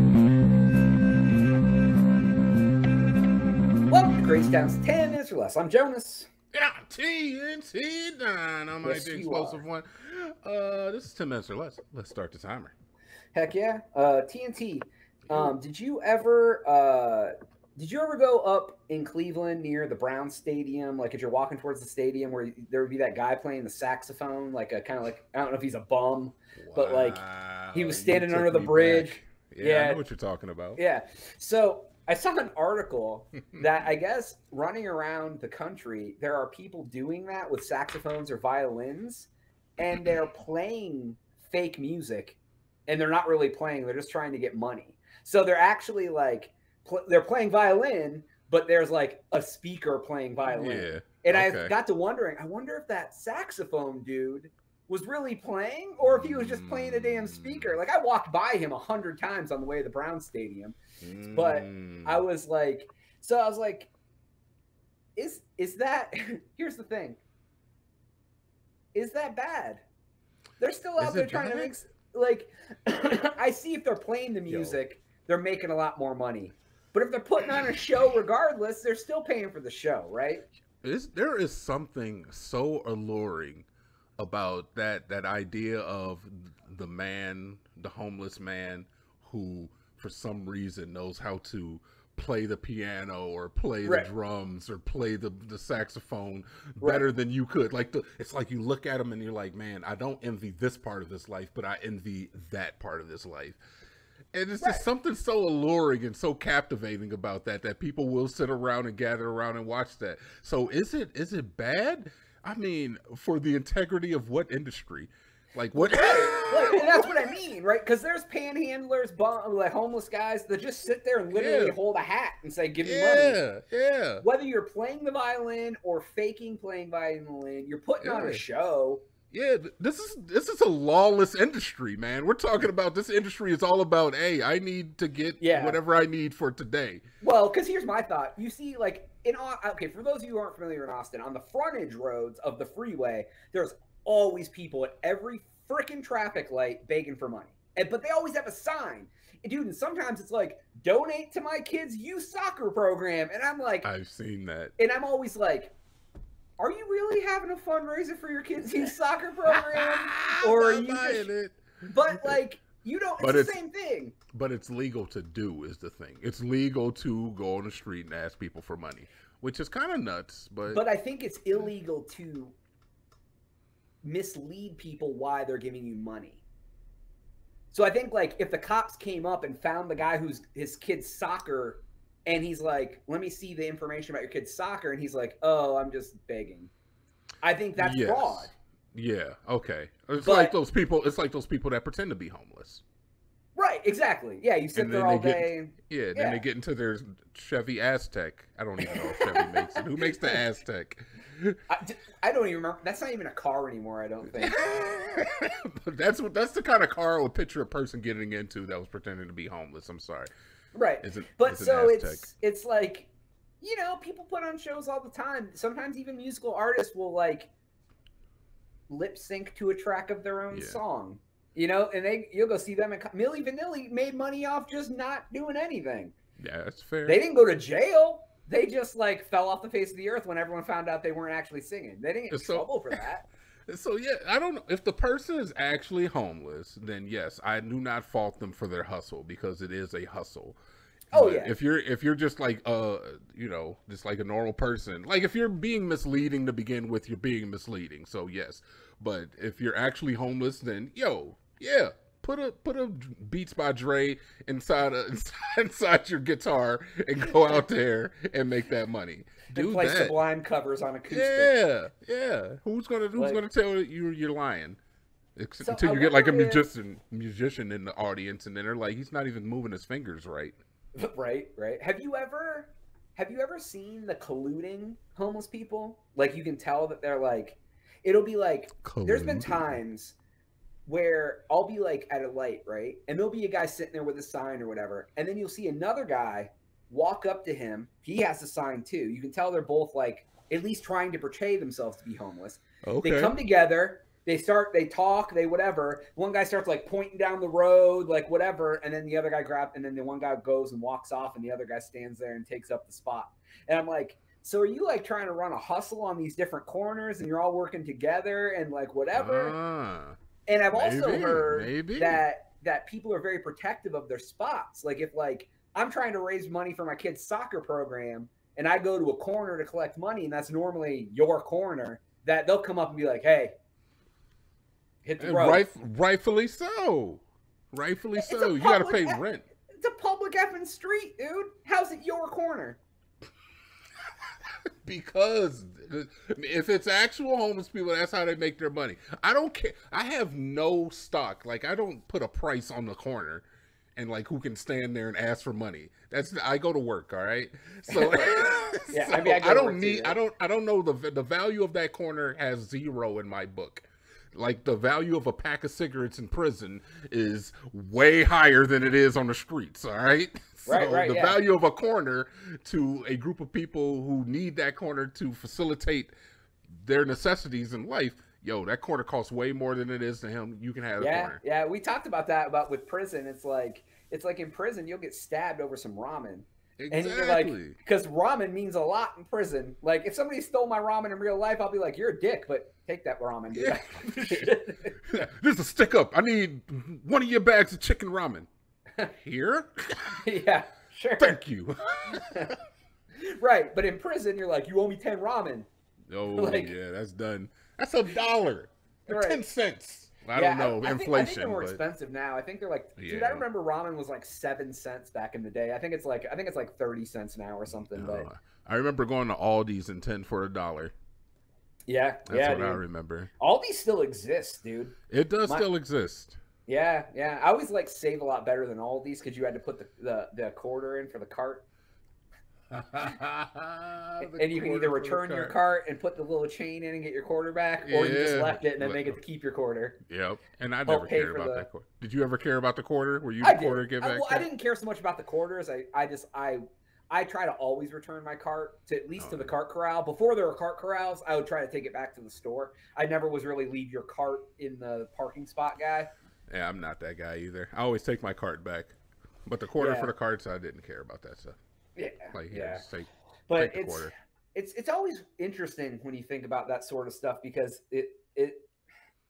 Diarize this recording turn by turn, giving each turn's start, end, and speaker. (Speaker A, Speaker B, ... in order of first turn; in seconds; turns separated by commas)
Speaker A: 3.9-6.3, Speaker B: 6.5-12.7, Speaker A: 8.8-9.6, Speaker A: 13.3-27.2, Speaker B: 15.3-15.5, Speaker B: 26.6-30.8, Speaker A: 27.7-30.0, Speaker A: 30.8-60.8, Speaker B: 50.5-51.8, Speaker B: 56.0-57.7, Speaker B: 61.0-62.2, Speaker A: 61.3-63.9, Speaker A: 65.2-67.2, Speaker A: 68.9-69.8, Speaker A: 70.6-80.5, Speaker B: 71.0-71.7, Speaker B: 74.5-74.8, Speaker B: 80.8-83.7, Speaker B: 84.2-103.6, Speaker A: 93.8-94.1, Speaker A: 96.8-97.1, Speaker B: 104.3-117.3, Speaker A: 115.8-123.4, Speaker B: 121.3-121.8, Speaker B: 122.8-124.2, Speaker A: 124.2-129.0, Speaker B: 128.0-128.4, Speaker B: 129.3-137.0, Speaker A: 135.4-135.8, Speaker A: 137.2-153.9, Speaker B: 153.8-154.7, Speaker A: 154.8-155.7, Speaker A: 156.6-161.3, Speaker B: 159.5-162.4, Speaker A: 161.8-164.2, Speaker B: 163.2-163.6, Speaker B: 164.3-170.8, Speaker A: 170.7-172.5, Speaker A: 174.0-176.4, Speaker A: 177.7-186.7, Speaker A: 187.4-188.5, Speaker B: 187.8-192.8, Speaker A: 190.2-190.6, Speaker A: 193.5-196.4, Speaker B: 194.7-201.6, Speaker A: 198.8-200.4, Speaker A: 201.7-204.6, Speaker B: 204.3-210.3, Speaker A: 210.7-213.1, Speaker B: 211.0-212.2, Speaker A: 213.6-217.5, Speaker A: 218.9-226.1, Speaker B: 220.5-220.8, Speaker B: 226.4-227.2, Speaker A: 227.1-233.2, Speaker B: 232.3-233.1, Speaker B: 233.7-240.6, Speaker B: 241.1-260.2, Speaker A: 241.1-241.5, Speaker A: 257.2-257.6, Speaker A: 259.5-261.5, Speaker B: 261.1-264.8, Speaker A: 263.2-263.4, Speaker B: 265.4-270.6, Speaker A: 265.6-266.7, Speaker A: 271.0-280.2, Speaker B: 278.8-279.8, Speaker A: 280.9-309.6, Speaker B: 292.9-293.4, Speaker B: 309.1-310.2, Speaker A: 310.5-323.6, Speaker B: 310.7-312.2, Speaker A: 325.0-325.7, Speaker B: 325.2-329.4, Speaker A: 328.2-329.2, Speaker A: 329.8-332.8, Speaker B: 334.8-343.4, Speaker B: 344.0-366.1, Speaker A: 347.9-350.2, Speaker A: 360.7-361.4, Speaker B: 366.7-371.4, Speaker A: 371.0-385.0, Speaker B: 376.8-377.8, Speaker B: 383.5-388.5, Speaker B: 389.0-390.2, Speaker A: 390.2-391.4, Speaker B: 391.2-392.6, Speaker A: 392.1-392.5, Speaker A: 393.2-395.7, Speaker B: 396.1-401.8, Speaker A: 396.3-396.8, Speaker A: 399.1-399.4, Speaker A: 400.3-408.3, Speaker B: 403.0-403.5, Speaker B: 407.8-410.9, Speaker A: 411.9-412.8, Speaker B: 412.3-413.3, Speaker A: 413.4-415.7, Speaker B: 415.1-416.4, Speaker A: 416.7-421.6, Speaker B: 422.7-425.6, Speaker A: 424.2-430.0, Speaker B: 427.8-429.2, Speaker B: 430.1-434.5, Speaker A: 430.9-431.7, Speaker A: 433.4-446.1, Speaker B: 439.2-439.5, Speaker B: 446.5-451.6, Speaker A: 449.8-450.1, Speaker A: 452.0-452.9, Speaker B: 452.3-454.1, Speaker A: 453.5-458.7